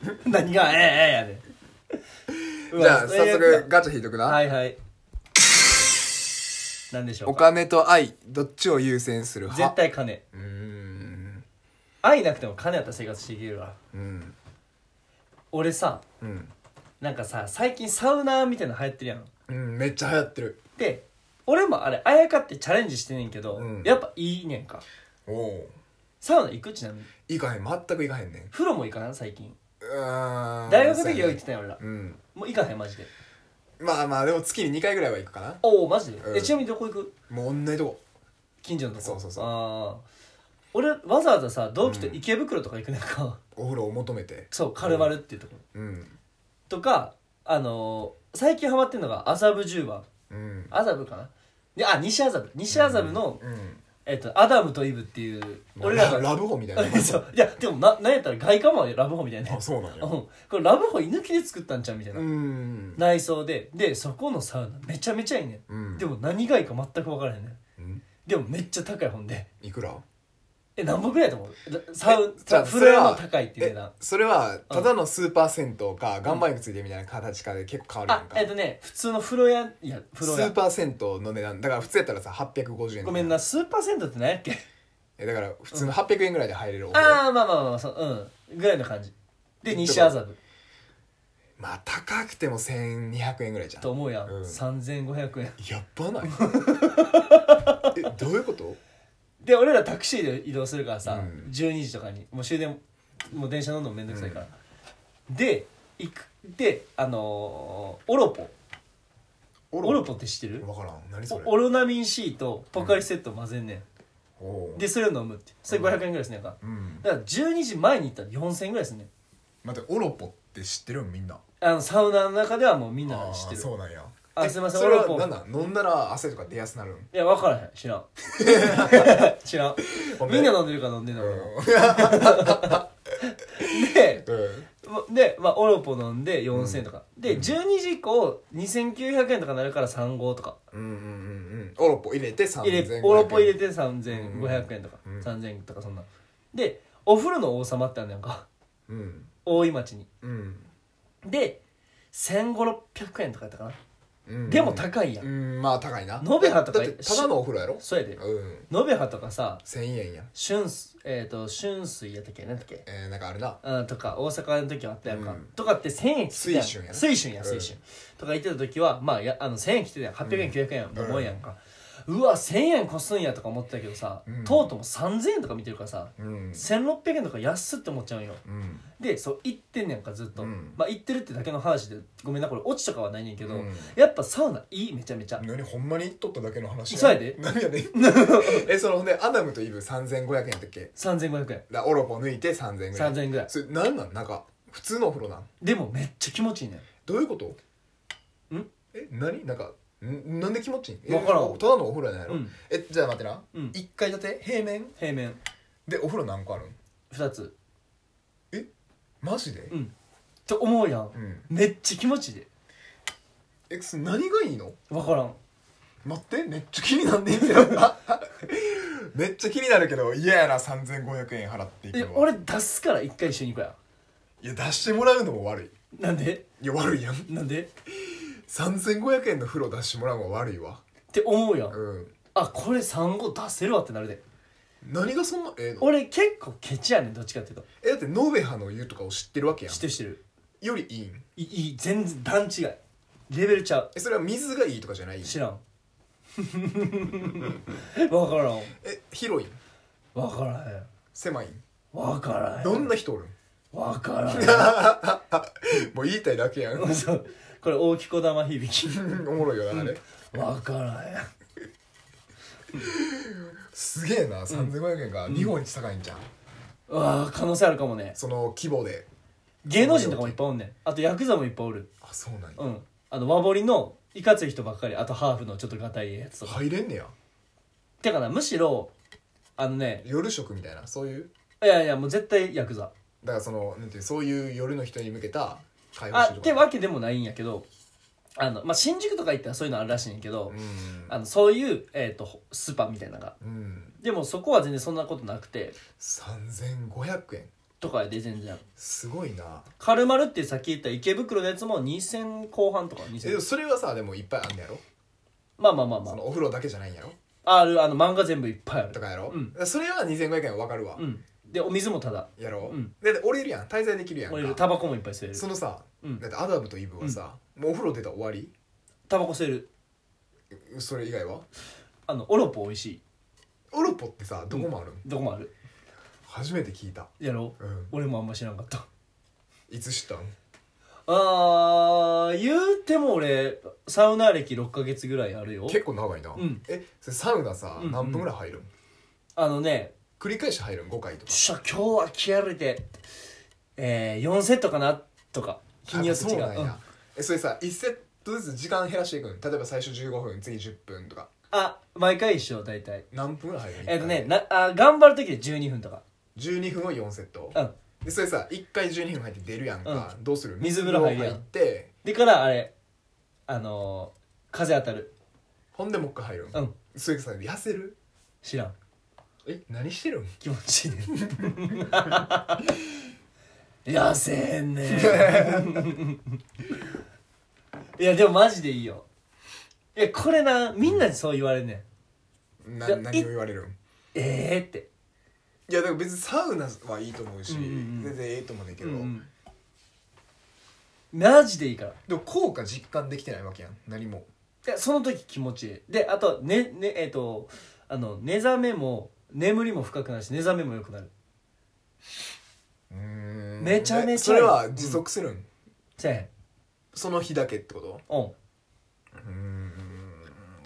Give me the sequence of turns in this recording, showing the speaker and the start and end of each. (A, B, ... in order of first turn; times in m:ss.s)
0:00.2-0:01.4 A
0:02.3-0:04.4 B
0:02.7-0:03.7 A
0:04.2-0:04.8 A
0:06.9-0:07.5 A
0:07.2-0:09.8 B
0:09.5-0:10.2 A
0:10.3-0:11.4 B
0:12.0-0:13.8 A
0:13.9-0:14.4 B
0:15.5-0:16.0 A
0:16.2-0:16.5 B
0:17.0-0:19.3 A
0:19.5-0:20.6 B
0:20.8-0:24.8 A
0:23.5-0:24.0 B
0:25.3-0:25.8 B
0:26.2-0:27.1 A
0:27.3-0:28.5 B
0:28.5-0:29.6 A
0:29.8-0:32.2 B
0:30.7-0:31.8 A
0:32.4-0:33.1 A
0:33.8-0:35.6 B
0:35.6-0:37.1 A
0:36.2-0:36.6 B
0:37.3-0:38.0 B
0:38.6-0:40.0 A
0:39.0-0:39.5 B
0:40.7-0:43.4 A
0:41.8-0:42.2 B
0:43.6-0:45.1 B
0:44.5-0:45.6 A
0:45.7-0:46.2 B
0:46.7-0:50.1 A
0:50.3-0:50.8 B
0:50.7-0:53.4 A
0:52.7-0:53.8 B
0:54.0-1:02.3 A
0:55.8-0:57.3 B
0:59.4-1:00.1 B
1:02.1-1:03.0 B
1:03.0-1:07.6 A
1:05.7-1:06.1 B
1:07.8-1:08.1 B
1:08.2-1:09.5 A
1:09.6-1:10.0 B
1:10.8-1:13.9 A
1:12.0-1:18.5 B
1:18.1-1:20.6 A
1:20.2-1:23.4 B
1:23.0-1:24.6 A
1:25.2-1:27.2 B
1:26.9-1:30.4 A
1:29.7-1:30.2 B
1:31.6-1:34.6 B
1:33.8-1:35.6 A
1:35.6-1:37.1 B
1:36.2-1:37.9 A
1:37.9-1:38.8 B
1:39.4-1:44.5 A
1:41.1-1:41.5 B
1:44.1-1:44.4 B
1:45.3-1:48.5 A
1:49.7-1:50.1 B
1:49.8-1:50.7 A
1:50.6-1:51.5 B
1:51.3-1:53.8 A
1:52.8-1:53.0 B
1:54.4-1:54.9 B
1:54.8-1:59.1 A
1:55.7-1:56.0 B
1:56.6-1:57.1 B
1:59.6-2:01.4 B
2:01.6-2:03.7 A
2:03.1-2:07.1 B
2:04.4-2:05.3 A
2:07.1-2:14.2 A
2:08.4-2:09.3 B
2:09.9-2:10.6 B
2:11.2-2:12.9 B
2:13.6-2:14.7 B
2:14.8-2:20.6 A
2:16.5-2:17.6 B
2:20.7-2:23.6 B
2:22.6-2:28.5 A
2:24.1-2:25.3 B
2:28.9-2:29.3 B
2:29.4-2:30.1 A
2:30.2-2:30.7 B
2:31.2-2:31.6 A
2:32.1-2:33.8 A
2:34.3-2:38.7 B
2:34.5-2:35.3 A
2:36.2-2:39.6 A
2:39.6-2:40.3 B
2:40.3-2:42.8 A
2:42.9-2:43.6 B
2:43.6-2:58.4 A
2:45.1-2:45.5 B
2:46.3-2:47.8 B
2:50.2-2:51.4 B
2:54.3-2:54.7 B
2:56.2-2:56.7 B
2:58.4-2:58.9 B
2:59.0-3:05.4 A
3:00.4-3:00.8 B
3:03.4-3:04.0 B
3:05.4-3:10.9 B
3:06.9-3:07.4 A
3:07.9-3:08.7 A
3:11.0-3:11.6 A
3:11.7-3:15.5 B
3:12.9-3:13.5 A
3:15.6-3:16.9 A
3:17.1-3:17.6 B
3:18.9-3:25.0 B
3:21.1-3:21.6 A
3:22.3-3:22.6 A
3:25.0-3:25.4 A
3:25.9-3:26.8 B
3:27.1-3:27.5 A
3:29.2-3:29.8 B
3:30.5-3:32.5 A
3:31.1-3:31.5 B
3:33.7-3:34.8 B
3:34.9-3:35.4 A
3:36.0-3:42.3 B
3:37.4-3:37.8 A
3:41.9-3:43.8 A
3:44.4-3:45.7 B
3:46.0-3:46.4 A
3:46.6-3:47.3 B
3:47.3-3:47.7 A
3:47.9-3:50.8 B
3:51.1-3:51.8 A
3:51.7-3:52.2 B
3:52.3-3:54.2 A
3:54.8-3:55.9 B
3:55.8-3:57.7 A
3:57.8-3:59.9 B
3:59.7-4:00.2 A
4:00.6-4:01.3 B
4:01.4-4:02.8 A
4:03.3-4:03.9 A
4:04.0-4:05.4 B
4:05.2-4:05.6 A
4:06.4-4:08.7 A
4:08.8-4:09.6 B
4:10.2-4:10.9 A
4:11.1-4:11.6 B
4:11.9-4:12.9 A
4:12.6-4:13.4 B
4:13.7-4:14.8 A
4:14.3-4:17.1 B
4:16.8-4:19.2 A
4:18.8-4:20.0 B
4:19.7-4:21.3 A
4:22.7-4:26.3 B
4:25.3-4:25.5 A
4:26.9-4:28.2 A
4:28.2-4:29.1 B
4:29.6-4:31.9 A
4:29.7-4:30.4 B
4:32.0-4:32.6 B
4:32.6-4:36.6 A
4:36.4-4:37.1 B
4:38.0-4:38.9 A
4:39.6-4:40.0 A
4:40.0-4:41.3 B
4:41.6-4:42.9 A
4:43.2-4:46.7 B
4:46.1-4:47.7 A
4:48.4-4:53.4 A
4:50.5-4:51.2 B
4:53.4-4:54.0 B
4:54.0-4:55.8 A
4:56.0-4:57.5 B
4:57.8-4:58.6 A
4:58.8-4:59.7 B
4:59.8-5:03.4 A
5:03.2-5:04.8 B
5:05.6-5:06.2 A
5:06.0-5:07.2 B
5:07.4-5:09.6 A
5:08.9-5:11.1 B
5:11.0-5:12.9 A
5:12.4-5:14.6 B
5:14.3-5:15.5 A
5:15.3-5:18.5 B
5:19.1-5:19.7 A
5:20.5-5:21.5 B
5:22.1-5:23.0 A
5:23.7-5:25.0 B
5:24.5-5:25.5 A
5:26.3-5:27.9 B
5:27.2-5:28.8 A
5:29.7-5:30.3 B
5:31.1-5:35.8 A
5:35.7-5:38.7 B
5:36.4-5:36.6 A
5:37.8-5:38.3 A
5:39.4-5:40.0 A
5:40.2-5:41.4 B
5:41.3-5:42.8 A
5:43.8-5:46.8 A
5:45.9-5:51.3 B
5:51.5-5:53.0 A
5:53.1-5:54.3 B
5:53.8-5:56.0 A
5:56.4-6:01.9 B
5:59.8-6:01.4 A
6:02.0-6:02.7 A
6:03.5-6:05.1 A
6:05.7-6:08.0 B
6:08.4-6:08.8 A
6:09.4-6:10.4 B
6:10.4-6:12.8 A
6:11.2-6:12.2 B
6:13.8-6:16.4 A
6:14.9-6:16.0 B
6:18.0-6:19.1 A
6:20.0-6:21.8 A
6:20.8-6:21.1 B
6:22.6-6:23.8 B
6:22.8-6:23.3 A
6:24.1-6:24.9 A
6:25.7-6:29.2 B
6:27.5-6:28.2 A
6:28.8-6:29.3 A
6:31.1-6:32.0 A
6:32.1-6:34.3 B
6:34.7-6:41.1 A
6:42.9-6:45.5 B
6:43.6-6:45.0 A
6:46.0-6:46.3 A
6:46.9-6:48.0 B
6:48.1-6:48.4 A
6:49.2-6:50.5 B